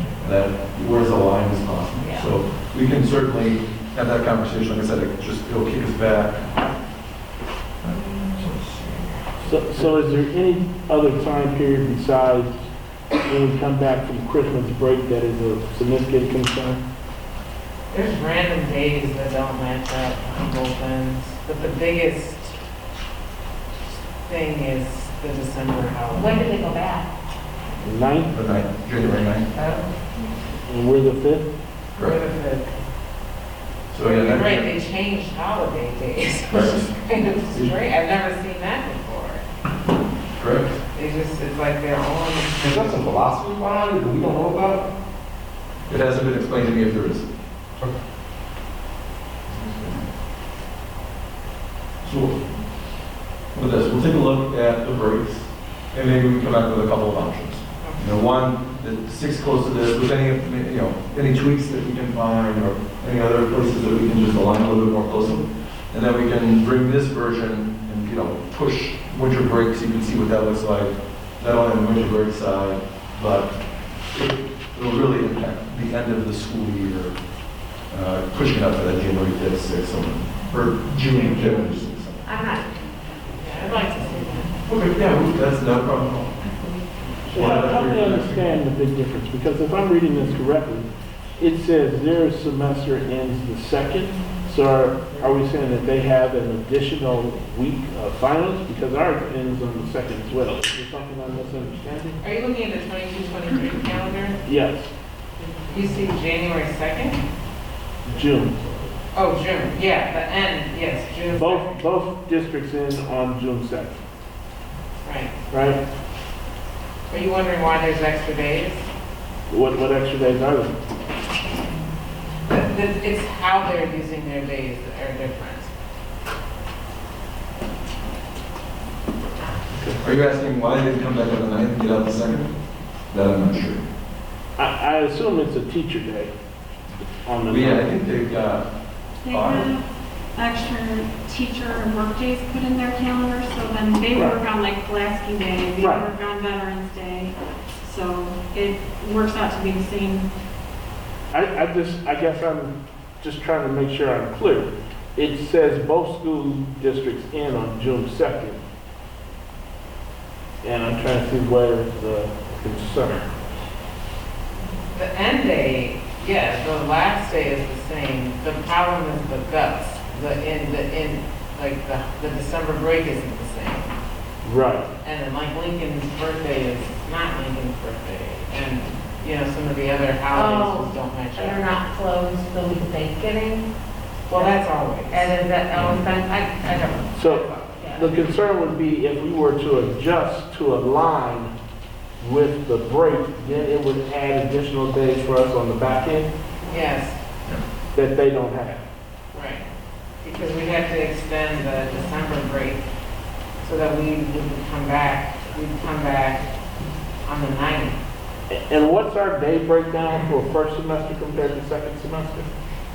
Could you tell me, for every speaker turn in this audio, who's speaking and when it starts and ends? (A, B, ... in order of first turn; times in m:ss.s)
0:00.2-0:06.6 A
0:02.0-0:02.3 B
0:07.8-0:09.6 A
0:09.4-0:12.6 C
0:13.2-0:16.8 C
0:17.9-0:22.6 D
0:24.2-0:26.5 D
0:26.1-0:27.1 B
0:27.8-0:28.3 C
0:28.3-0:29.6 A
0:30.6-0:31.5 C
0:32.0-0:32.8 D
0:33.9-0:34.7 A
0:34.0-0:39.4 D
0:36.5-0:36.9 A
0:40.4-0:40.8 A
0:40.9-0:43.1 D
0:42.6-0:44.8 E
0:45.9-0:47.3 A
0:49.6-0:49.9 A
0:52.0-0:52.4 A
0:53.5-1:13.6 A
1:14.1-1:17.2 A
1:17.9-1:22.2 A
1:21.0-1:21.7 D
1:22.2-1:24.5 B
1:23.4-1:24.6 D
1:24.6-1:26.4 A
1:26.4-1:26.9 B
1:27.3-1:42.2 C
1:27.3-1:28.5 A
1:42.2-1:44.4 D
1:44.4-1:44.9 C
1:45.7-1:47.2 D
1:48.0-1:48.6 C
1:49.1-1:51.8 D
1:51.3-1:54.0 C
1:55.0-1:55.4 D
1:55.5-1:55.8 C
1:57.1-1:58.9 D
1:59.5-2:00.7 C
2:02.5-2:05.7 D
2:10.0-2:12.5 A
2:13.1-2:13.8 A
2:14.6-2:16.3 C
2:17.2-2:17.9 C
2:17.5-2:18.6 A
2:19.2-2:30.3 F
2:19.3-2:19.7 A
2:24.1-2:24.4 C
2:25.8-2:26.1 C
2:31.3-2:38.6 C
2:40.6-2:43.4 C
2:44.9-2:53.9 D
2:54.4-2:54.9 C
2:55.0-3:01.7 D
3:00.3-3:03.7 B
3:04.3-3:06.0 D
3:04.3-3:08.1 B
3:07.1-3:11.5 C
3:12.2-3:16.3 C
3:16.7-3:17.2 D
3:17.9-3:18.8 C
3:19.3-3:19.6 D
3:20.2-3:22.8 D
3:23.6-3:26.5 D
3:27.2-3:28.0 D
3:28.5-3:32.5 C